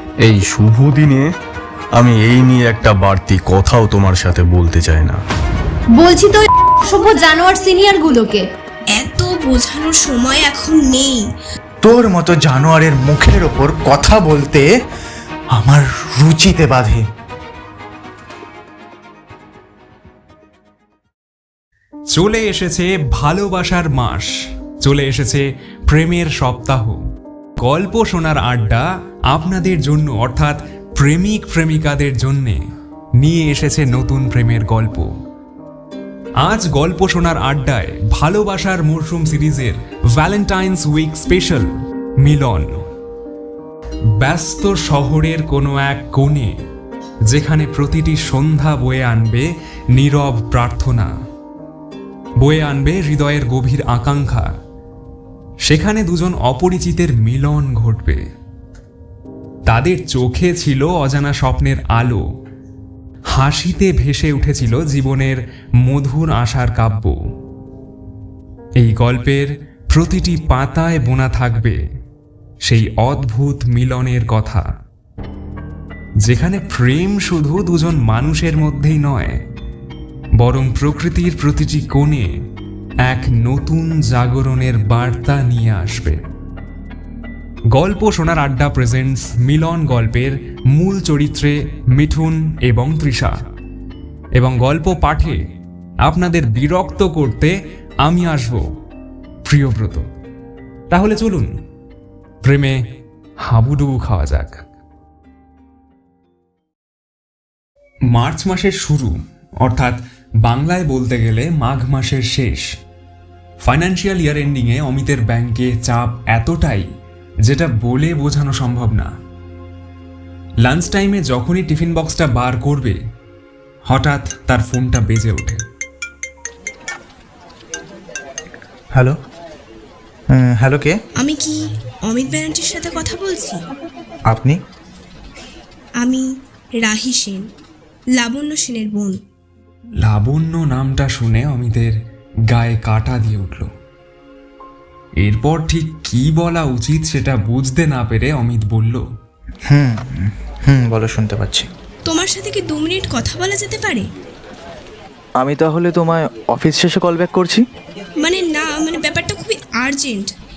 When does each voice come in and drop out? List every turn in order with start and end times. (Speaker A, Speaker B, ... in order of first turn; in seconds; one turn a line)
Speaker A: 0.2-1.3
Speaker A: 1.9-5.2
Speaker B: 6.0-8.4
Speaker C: 8.9-11.3
Speaker D: 11.8-14.7
Speaker D: 15.5-17.0
Speaker E: 22.1-24.3
Speaker E: 24.8-27.0
Speaker E: 27.6-32.6
Speaker E: 33.2-35.1
Speaker E: 36.4-41.7
Speaker E: 42.2-42.8
Speaker E: 44.2-46.5
Speaker E: 47.3-51.1
Speaker E: 52.4-54.5
Speaker E: 55.6-58.2
Speaker E: 59.6-62.2
Speaker E: 63.3-67.2
Speaker E: 68.8-71.8
Speaker E: 72.6-74.6
Speaker E: 76.2-79.3
Speaker E: 80.4-82.3
Speaker E: 83.0-86.2
Speaker E: 87.7-93.3
Speaker E: 94.3-95.4
Speaker E: 96.0-98.6
Speaker E: 99.4-100.0
Speaker E: 100.9-101.5
Speaker E: 102.4-102.8
Speaker E: 103.4-104.6
Speaker E: 108.1-112.7
Speaker E: 113.6-116.8
Speaker E: 117.5-119.1
Speaker E: 120.6-123.0
Speaker E: 123.9-125.6
Speaker D: 130.3-130.9
Speaker C: 131.2-133.6
Speaker D: 134.3-134.6
Speaker C: 136.8-137.4
Speaker C: 138.2-139.2
Speaker E: 140.0-141.9
Speaker E: 142.5-143.7
Speaker E: 145.2-149.0
Speaker D: 149.7-151.7
Speaker C: 152.1-154.1
Speaker D: 155.4-157.6
Speaker C: 158.2-160.3